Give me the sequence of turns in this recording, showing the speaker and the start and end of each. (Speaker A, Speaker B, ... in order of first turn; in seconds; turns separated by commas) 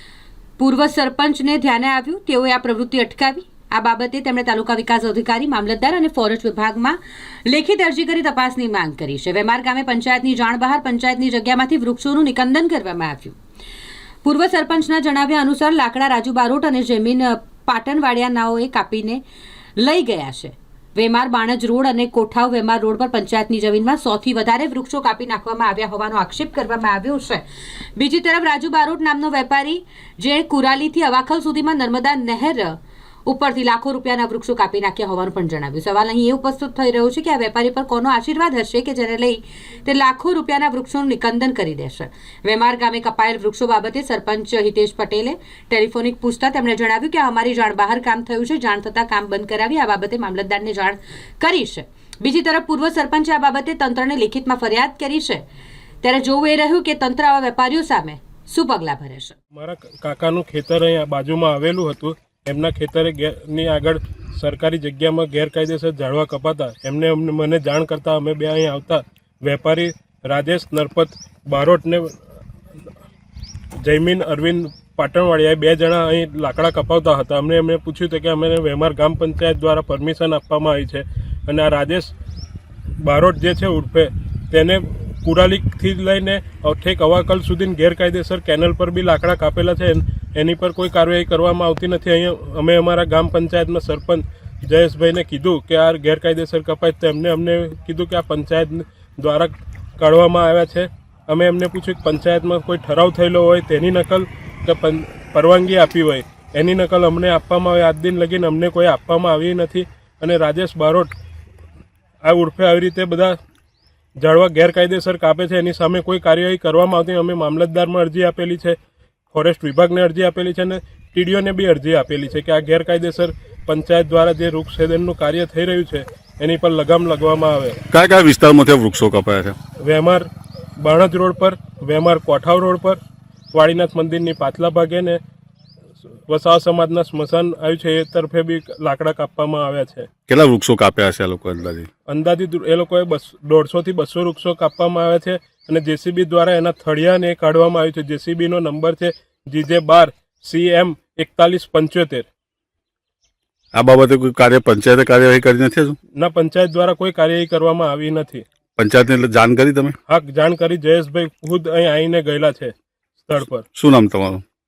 Speaker A: 0.6-13.4, Speaker A: 14.2-19.2, Speaker A: 19.8-27.4, Speaker A: 27.9-55.4, Speaker A: 56.0-59.4, Speaker B: 59.5-72.2, Speaker B: 73.8-82.1, Speaker B: 83.0-111.1, Speaker B: 112.2-113.4, Speaker B: 114.2-118.8, Speaker B: 119.3-127.8, Speaker C: 127.9-129.6, Speaker B: 129.8-130.3, Speaker B: 130.8-133.0, Speaker B: 133.5-135.2, Speaker B: 136.3-140.1, Speaker C: 140.3-141.9, Speaker B: 142.1-152.3, Speaker C: 153.7-156.0, Speaker B: 156.2-158.4, Speaker C: 158.8-159.9, Speaker B: 160.1-163.7, Speaker C: 163.7-164.4